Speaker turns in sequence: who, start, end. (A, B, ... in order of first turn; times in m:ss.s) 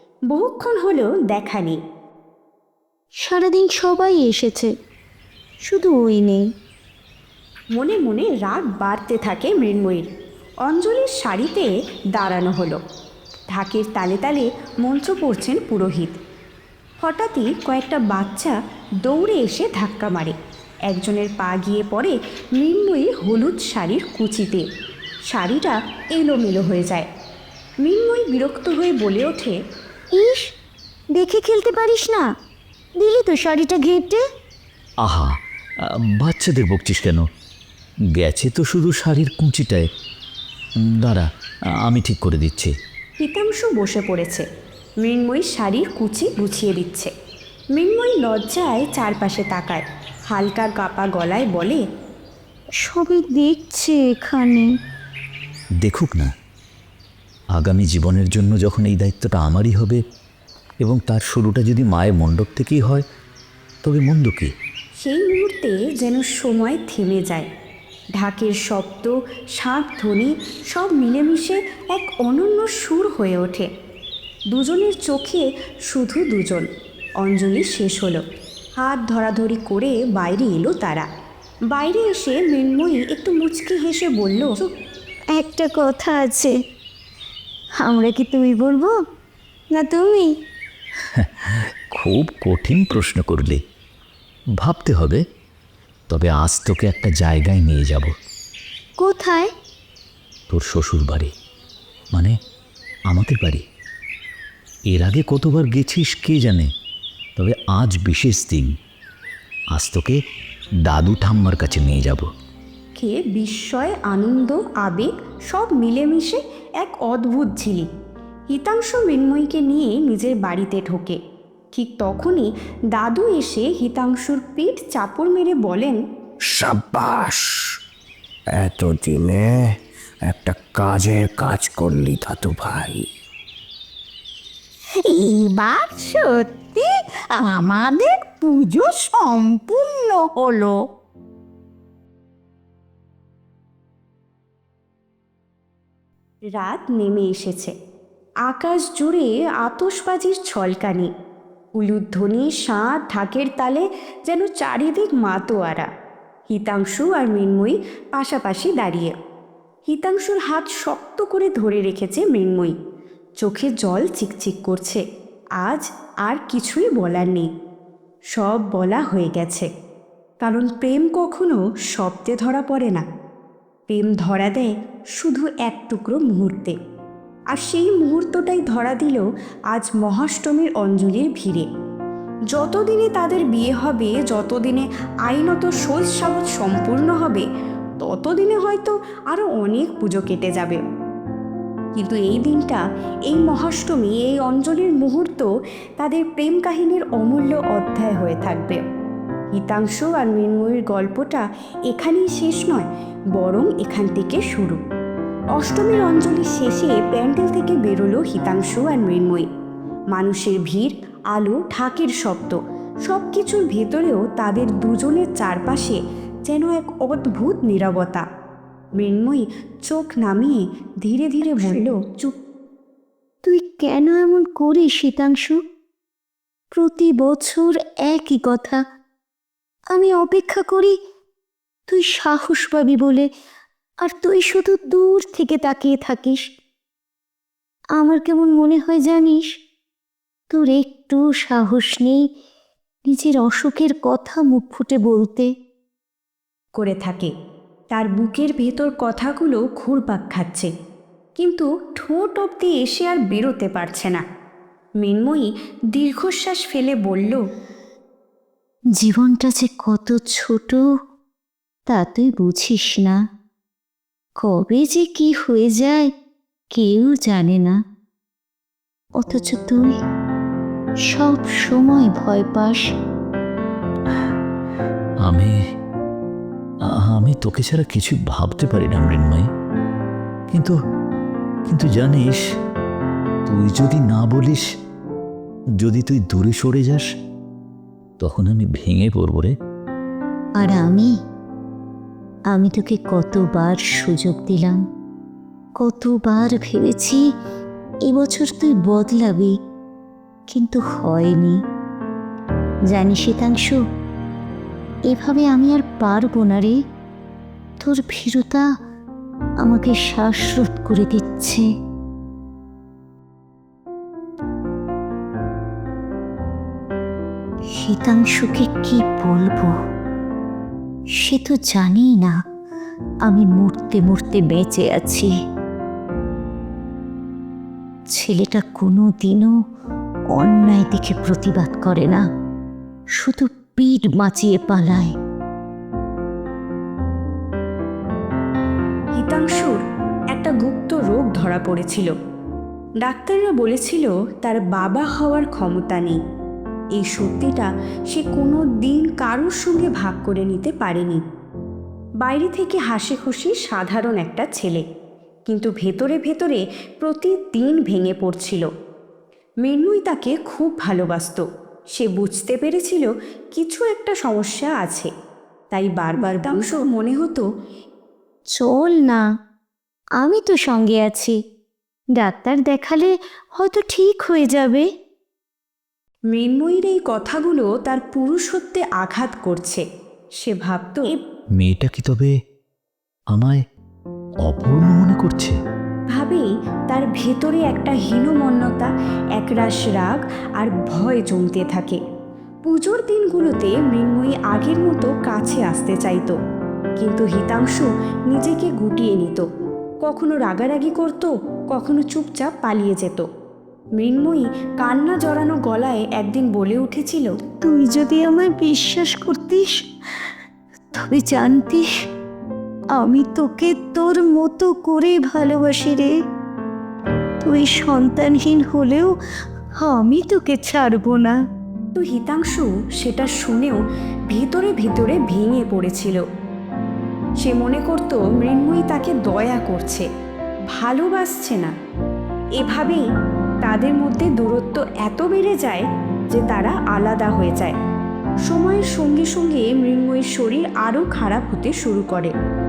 0:00.3-0:01.8 A
0:03.2-0:04.7 B
0:05.6-0:06.4 B
0:07.7-0:10.1 A
0:10.6-0:12.8 A
0:13.5-0:16.2 A
0:17.0-0:20.3 A
0:20.9-0:24.6 A
0:25.3-0:27.1 A
0:27.8-0:29.5 A
0:30.1-0:30.5 B
0:31.1-0:32.2 B
0:33.0-0:34.2 B
0:35.0-0:37.2 C
0:38.2-0:39.9 C
0:40.8-0:41.3 C
0:41.8-0:42.7 C
0:43.2-0:44.4 A
0:45.0-0:47.1 A
0:47.7-0:51.8 A
0:52.8-0:54.7 B
0:55.8-0:56.3 C
0:57.5-1:00.0 C
1:00.8-1:03.0 C
1:03.8-1:04.5 C
1:05.0-1:07.5 A
1:08.2-1:13.7 A
1:14.5-1:16.7 A
1:17.2-1:18.2 A
1:18.8-1:21.1 A
1:21.7-1:24.6 A
1:25.3-1:26.5 B
1:27.8-1:28.9 B
1:29.7-1:30.3 B
1:31.0-1:33.6 C
1:34.6-1:35.2 C
1:36.1-1:38.1 C
1:39.0-1:39.5 B
1:40.5-1:41.3 C
1:43.1-1:43.6 C
1:44.9-1:46.7 C
1:47.4-1:48.7 C
1:49.7-1:50.2 C
1:50.8-1:52.3 C
1:53.0-1:57.9 A
1:58.5-2:01.2 A
2:01.7-2:06.0 A
2:06.5-2:07.6 D
2:08.6-2:09.7 D
2:10.2-2:13.0 D
2:15.0-2:20.8 E
2:26.5-2:27.7 A
2:28.4-2:31.1 A
2:31.8-2:35.9 A
2:36.5-2:39.1 A
2:39.9-2:42.7 A
2:43.4-2:45.0 A
2:45.6-2:47.5 A
2:48.3-2:49.7 A
2:50.4-2:53.0 A
2:53.9-2:56.7 A
2:57.5-3:01.7 A
3:02.5-3:07.4 A
3:08.0-3:10.8 A
3:11.9-3:15.5 A
3:16.0-3:18.8 A
3:19.5-3:24.8 A
3:25.5-3:29.5 A
3:30.1-3:38.2 A
3:39.0-3:42.1 A
3:41.6-3:42.3 B
3:43.4-3:45.6 B
3:46.7-3:48.8 B
3:49.9-3:50.9 B
3:51.9-3:53.2 B
3:54.0-3:56.4 B
3:58.0-3:59.4 B
4:00.5-4:02.2 B
4:03.1-4:05.5 B
4:06.8-4:07.3 A
4:07.9-4:10.7 A
4:11.4-4:14.2 A
4:15.0-4:17.4 A
4:19.0-4:20.8 B
4:21.9-4:23.2 B
4:24.4-4:26.1 B
4:26.7-4:27.8 B
4:29.2-4:29.9 B
4:31.1-4:32.8 B
4:35.2-4:35.5 C
4:36.9-4:39.5 C
4:41.7-4:42.4 C
4:43.5-4:44.6 C
4:45.8-4:47.1 C
4:48.2-4:49.5 C
4:50.6-4:51.1 B
4:52.5-4:54.8 B
4:55.8-4:57.2 B
4:58.1-4:59.5 B
5:00.5-5:01.6 B
5:02.9-5:03.8 B
5:05.1-5:06.7 B
5:07.8-5:08.6 B
5:09.6-5:11.6 B
5:17.8-5:19.7 B
5:21.2-5:22.3 B
5:23.2-5:25.3 B
5:28.1-5:29.5 B
5:30.3-5:32.2 B
5:33.2-5:35.1 B
5:39.1-5:39.8 A
5:40.3-5:42.1 A
5:43.0-5:46.2 A
5:47.0-5:51.2 A
5:52.2-5:54.8 A
5:55.5-5:58.7 A
5:59.6-6:05.1 A
6:05.7-6:07.4 A
6:08.5-6:09.2 B
6:10.2-6:11.4 B
6:12.2-6:14.8 B
6:16.3-6:19.8 A
6:20.4-6:21.1 A
6:21.6-6:22.3 C
6:23.3-6:23.6 C
6:24.4-6:25.5 C
6:26.1-6:32.0 A
6:32.7-6:36.4 A
6:37.0-6:39.4 A
6:40.0-6:43.2 A
6:44.0-6:47.3 A
6:47.6-6:49.7 B
6:50.9-6:51.8 B
6:53.0-6:56.1 B
6:57.4-6:59.1 B
6:59.8-7:01.4 B
7:01.9-7:03.8 A
7:04.3-7:06.2 A
7:07.4-7:10.0 A
7:10.7-7:11.7 A
7:12.6-7:13.0 A
7:13.6-7:17.7 A
7:18.5-7:22.3 A